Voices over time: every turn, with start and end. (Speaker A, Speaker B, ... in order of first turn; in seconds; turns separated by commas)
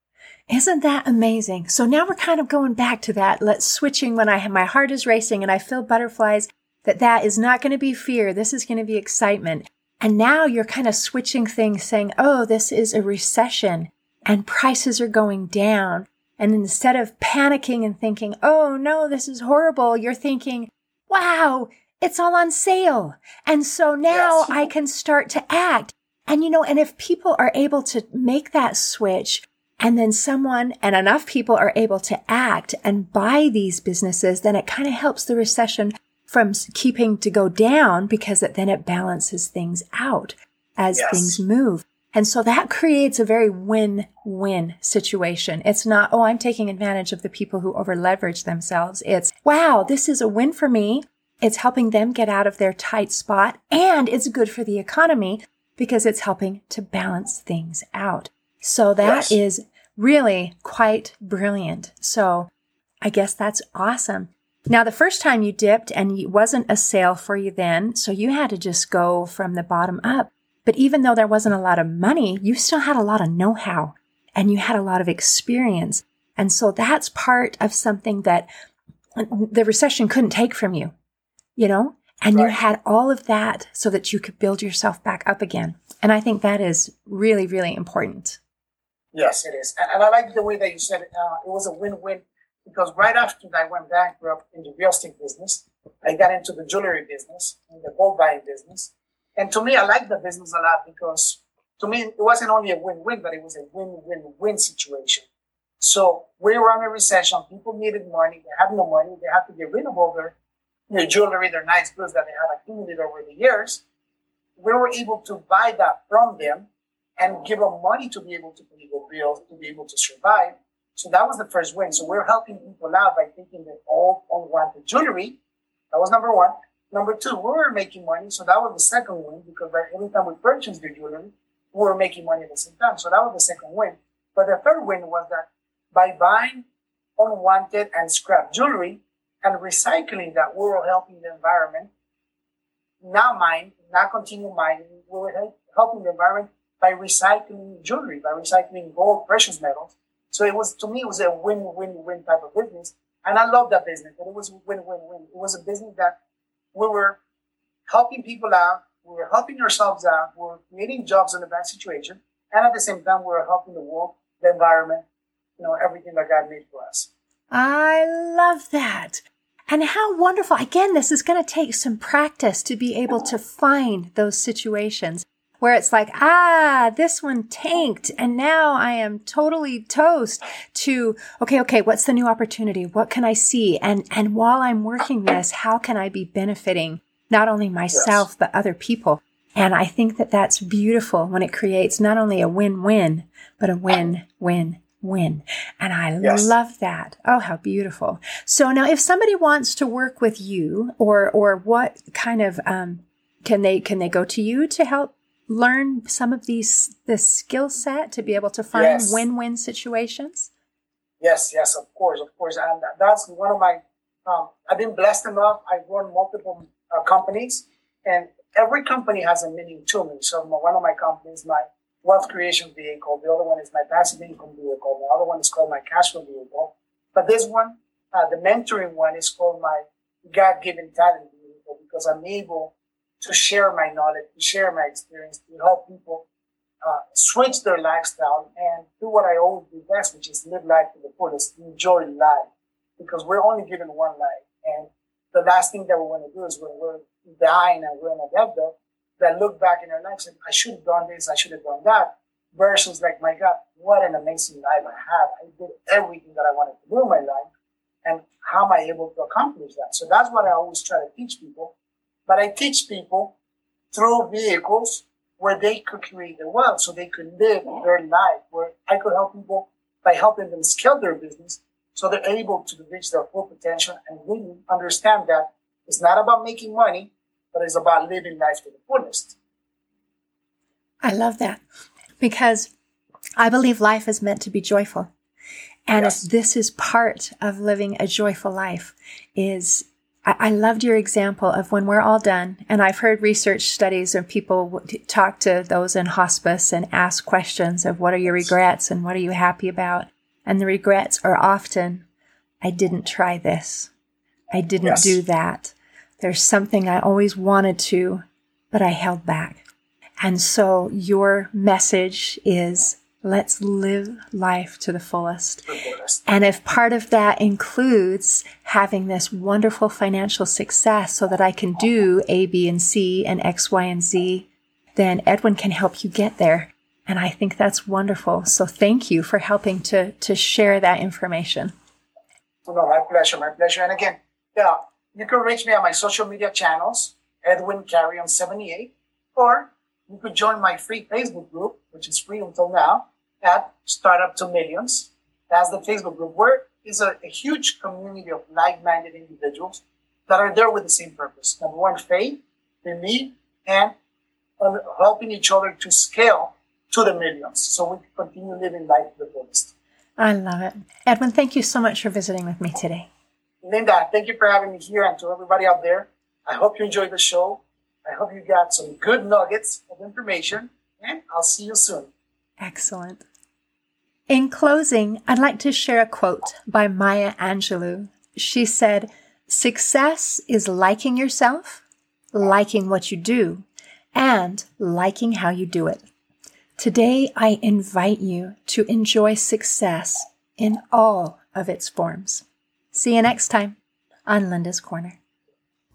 Speaker A: 0.5-62.5, Speaker B: 24.1-24.6, Speaker B: 40.9-41.4, Speaker B: 59.0-59.3, Speaker A: 63.0-78.5, Speaker A: 79.2-80.9, Speaker A: 81.5-88.4, Speaker B: 89.1-105.2, Speaker B: 105.8-110.3, Speaker B: 110.9-113.8, Speaker B: 114.6-116.7, Speaker B: 117.2-125.4, Speaker B: 125.9-136.7, Speaker B: 137.2-141.9, Speaker B: 143.0-156.2, Speaker B: 156.7-157.2, Speaker B: 157.9-165.1, Speaker B: 165.6-167.1, Speaker A: 167.5-210.5, Speaker B: 187.9-188.2, Speaker B: 196.2-196.5, Speaker B: 208.7-209.2, Speaker B: 211.2-236.2, Speaker B: 236.8-257.5, Speaker B: 258.0-261.7, Speaker B: 262.3-263.3, Speaker B: 263.9-279.4, Speaker A: 281.0-281.6, Speaker A: 282.2-282.7, Speaker A: 283.4-285.1, Speaker A: 285.9-302.0, Speaker A: 302.6-303.9, Speaker A: 304.5-309.6, Speaker B: 304.8-305.2, Speaker A: 310.2-315.7, Speaker B: 315.7-316.2, Speaker A: 316.2-331.7, Speaker B: 332.7-353.9, Speaker B: 354.6-359.7, Speaker A: 360.2-363.1, Speaker B: 363.6-372.1, Speaker A: 372.6-373.2, Speaker A: 374.3-386.1, Speaker A: 386.8-395.2